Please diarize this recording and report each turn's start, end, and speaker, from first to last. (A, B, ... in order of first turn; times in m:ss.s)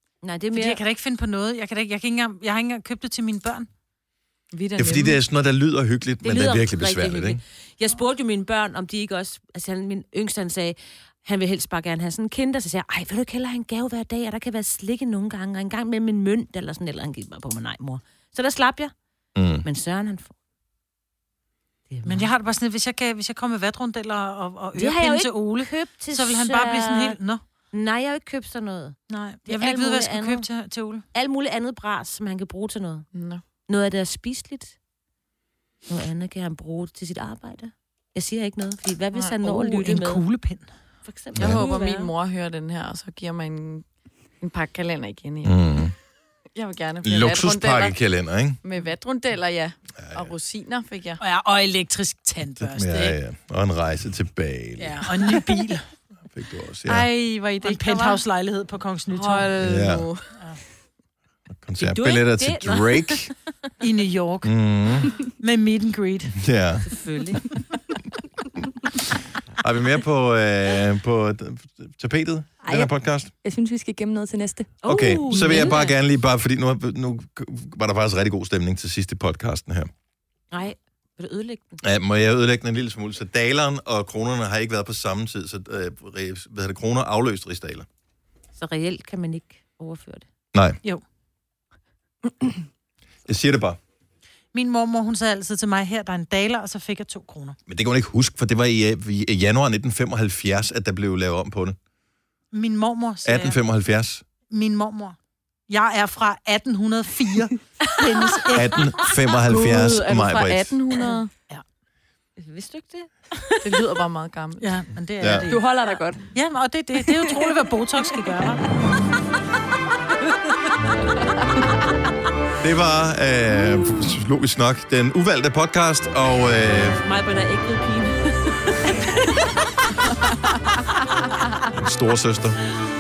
0:00.2-0:00.8 A
0:00.5-0:03.7 B
0:04.5-0:05.2 C
0:04.8-0:07.4 D
0:06.2-0:19.0 A
0:19.4-0:19.6 D
0:19.6-0:20.3 A
0:21.9-0:22.3 A
0:22.0-0:27.4 B
0:24.7-0:27.2 A
0:27.7-0:30.5 A
0:29.1-0:31.0 B
0:31.1-0:34.8 A
0:33.1-0:33.4 C
0:35.9-0:40.2 A
0:39.4-0:40.7 B
0:41.0-0:42.1 A
0:41.4-0:45.6 C
0:41.4-0:41.7 D
0:45.4-0:46.0 D
0:46.5-0:48.0 C
0:47.0-0:48.6 D
0:48.6-0:51.2 C
0:50.0-0:50.3 D
0:51.2-0:53.2 B
0:52.6-0:55.3 D
0:54.8-0:55.8 B
0:56.3-0:57.1 D
0:56.9-0:58.2 C
0:57.6-0:59.5 B
0:59.1-1:00.4 C
0:59.6-1:00.1 D
1:00.3-1:00.6 B
1:01.5-1:03.3 D
1:01.8-1:03.4 A
1:03.8-1:04.6 B
1:04.4-1:05.1 D
1:05.4-1:06.5 B
1:06.4-1:06.9 D
1:06.8-1:07.5 A
1:09.6-1:13.3 D
1:12.6-1:14.8 E
1:14.8-1:16.0 A
1:14.8-1:19.9 D
1:15.4-1:15.7 E
1:20.5-1:21.8 A
1:21.8-1:27.9 D
1:28.6-1:30.3 A
1:30.5-1:30.8 D
1:33.2-1:33.8 D
1:34.5-1:37.6 B
1:37.7-1:41.8 D
1:42.5-1:43.6 B
1:43.2-1:44.2 D
1:44.5-1:48.9 B
1:48.5-1:50.8 D
1:49.4-1:51.3 C
1:52.4-1:53.9 A
1:53.6-1:54.8 C
1:54.6-1:55.7 B
1:55.2-1:55.5 D
1:55.5-1:56.3 E
1:56.3-1:58.6 B
2:02.6-2:07.0 D
2:07.0-2:10.0 A
2:10.7-2:11.4 A
2:11.7-2:12.6 D